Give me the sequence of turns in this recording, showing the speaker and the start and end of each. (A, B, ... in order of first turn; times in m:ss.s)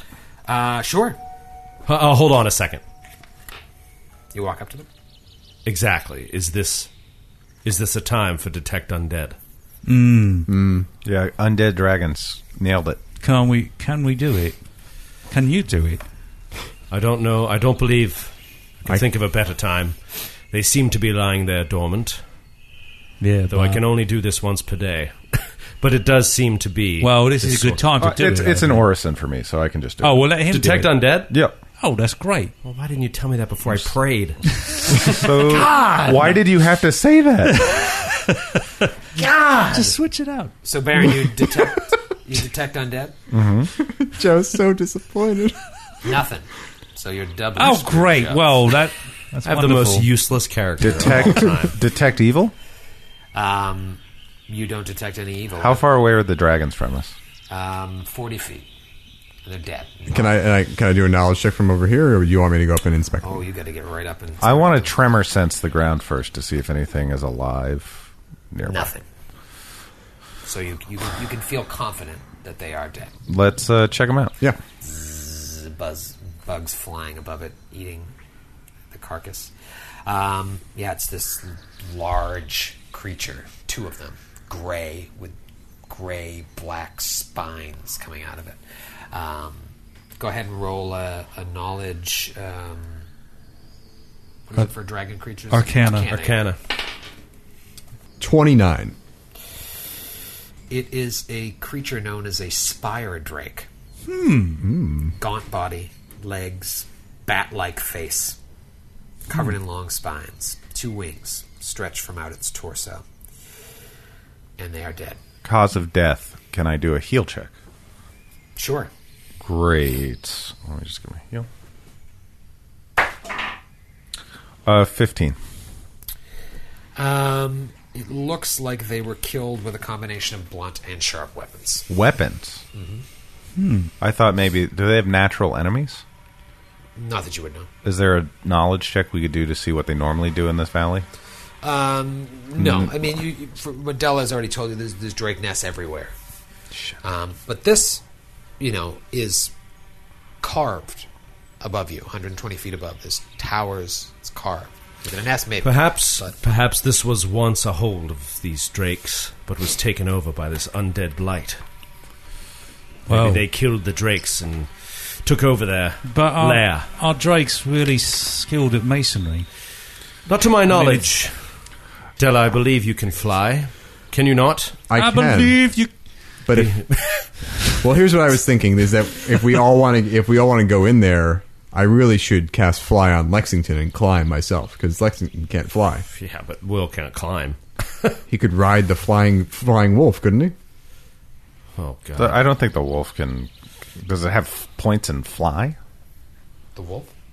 0:00.5-0:01.2 A
0:01.9-0:02.8 B
0:04.3-0:04.9 A
0:05.6-0:06.9 B
0:07.6-0:09.4 B
0:09.8-0:10.5 C
0:10.5-0:10.9 D
0:11.0-0:13.0 E
0:13.2-0:14.6 C
0:15.3-0:16.0 C
0:16.9-0:22.2 B
0:23.2-0:23.8 C
0:23.5-0:27.8 B
0:27.0-0:28.9 C
0:28.0-0:30.2 E
0:30.0-0:31.2 C
0:30.5-0:31.3 B
0:31.3-0:31.6 E
0:31.8-0:32.5 C
0:32.6-0:34.5 B
0:35.0-0:36.3 A
0:35.1-0:37.7 E
0:37.5-0:38.9 C
0:39.2-0:39.9 A
0:39.7-0:40.6 C
0:40.6-0:43.2 A
0:43.3-0:43.7 E
0:43.8-0:45.6 D
0:46.0-0:48.5 A
0:47.6-0:50.1 C
0:49.4-0:51.8 B
0:50.8-0:52.5 E
0:53.3-0:55.9 A
0:55.6-0:57.1 E
0:57.5-0:58.6 A
0:59.4-1:00.3 A
1:00.1-1:03.4 D
1:03.2-1:05.0 A
1:04.4-1:08.9 E
1:08.7-1:09.0 A
1:10.4-1:13.1 A
1:13.3-1:14.4 E
1:14.8-1:18.1 A
1:18.9-1:19.5 A
1:20.0-1:25.4 A
1:25.9-1:28.6 A
1:29.1-1:33.0 A
1:34.5-1:36.4 A
1:35.5-1:36.1 C
1:36.1-1:36.6 B
1:38.2-1:38.9 D
1:40.7-1:43.7 A
1:44.0-1:44.6 C
1:44.6-1:45.1 D
1:45.2-1:48.4 A
1:49.3-1:53.0 A
1:54.6-1:55.2 A
1:55.4-1:57.5 E
1:58.6-1:58.9 A
1:59.4-2:01.5 E
2:04.6-2:05.4 E
2:07.0-2:11.9 A
2:11.9-2:12.6 E
2:12.7-2:13.0 A
2:13.6-2:13.9 C
2:14.0-2:16.0 E
2:17.0-2:17.7 A
2:17.8-2:21.0 E
2:21.6-2:26.1 A
2:22.6-2:22.9 E
2:27.0-2:28.0 A
2:28.6-2:29.5 A
2:30.4-2:31.1 A
2:31.6-2:36.3 A
2:35.6-2:41.6 B
2:43.1-2:43.4 C
2:43.1-2:46.9 B
2:46.0-2:49.5 C
2:50.2-2:51.6 B
2:50.7-2:51.1 C
2:52.2-2:54.8 B
2:54.9-2:55.6 D
2:54.9-2:55.9 C
2:56.4-2:57.0 D
2:56.5-2:57.3 B
2:57.7-3:06.0 D
3:06.1-3:08.2 B
3:08.3-3:10.6 D
3:11.8-3:12.4 B
3:12.2-3:15.8 E
3:16.7-3:17.1 A